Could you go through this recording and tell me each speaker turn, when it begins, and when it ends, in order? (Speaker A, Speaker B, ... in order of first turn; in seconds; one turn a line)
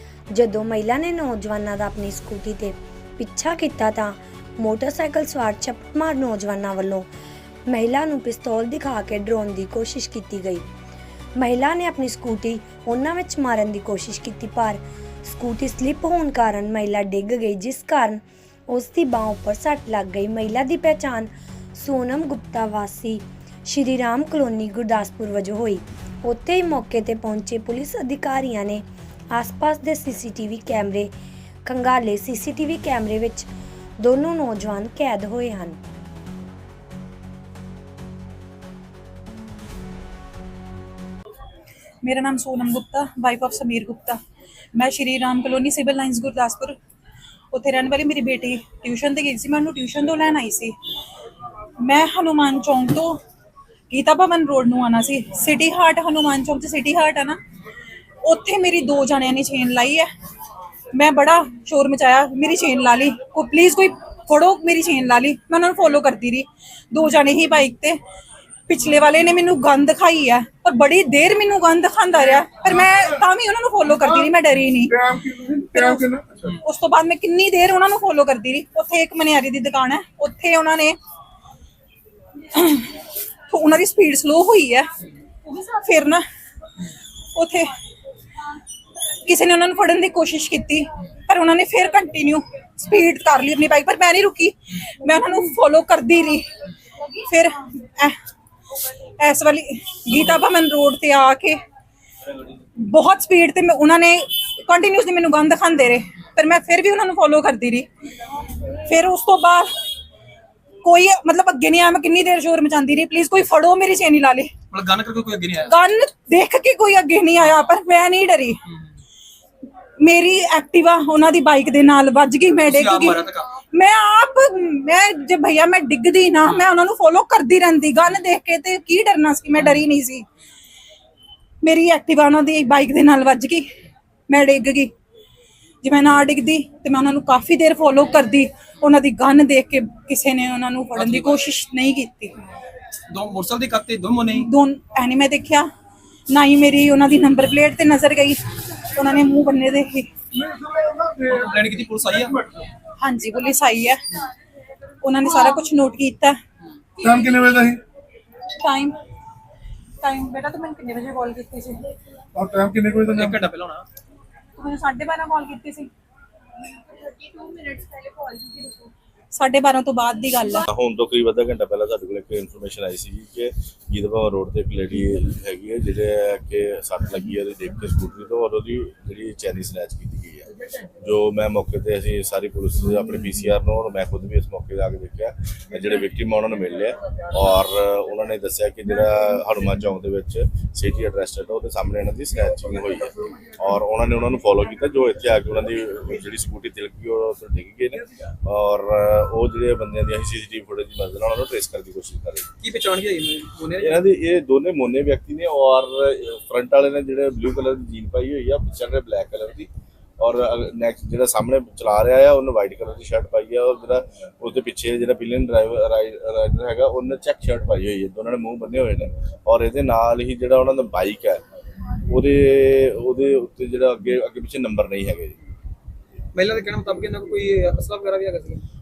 Speaker A: 0.3-7.1
Speaker A: 7.7-10.6
Speaker A: 11.4-31.1
Speaker A: 31.6-33.5
Speaker A: 34.0-35.8
Speaker B: 42.0-44.2
Speaker B: 44.7-46.8
Speaker B: 47.5-50.7
Speaker B: 51.8-53.2
Speaker B: 53.9-57.4
Speaker B: 58.2-60.1
Speaker B: 60.9-68.0
Speaker B: 68.7-75.1
Speaker C: 74.9-76.5
Speaker B: 75.7-81.0
Speaker B: 82.5-84.9
Speaker B: 85.4-86.2
Speaker B: 87.3-87.7
Speaker B: 89.2-96.5
Speaker B: 97.2-98.2
Speaker B: 99.2-101.6
Speaker B: 102.8-107.9
Speaker B: 108.7-109.7
Speaker B: 110.8-114.6
Speaker D: 114.7-115.7
Speaker B: 115.7-118.6
Speaker B: 120.0-130.2
Speaker D: 122.6-123.5
Speaker B: 131.6-133.7
Speaker B: 134.3-134.9
Speaker B: 135.8-142.3
Speaker D: 140.9-141.4
Speaker D: 143.1-144.5
Speaker B: 144.4-145.7
Speaker B: 146.3-148.4
Speaker B: 148.9-150.1
Speaker C: 150.3-151.4
Speaker D: 151.2-152.4
Speaker B: 153.0-154.0
Speaker B: 155.0-156.4
Speaker B: 157.0-157.4
Speaker C: 157.0-157.8
Speaker B: 158.6-159.0
Speaker B: 160.0-161.9
Speaker C: 162.3-163.4
Speaker D: 163.1-163.8
Speaker B: 164.6-165.9
Speaker B: 166.7-170.7
Speaker E: 170.7-180.5
Speaker E: 181.0-202.5
Speaker D: 202.6-204.0
Speaker E: 203.8-221.4
Speaker E: 222.0-225.4
Speaker D: 226.3-228.6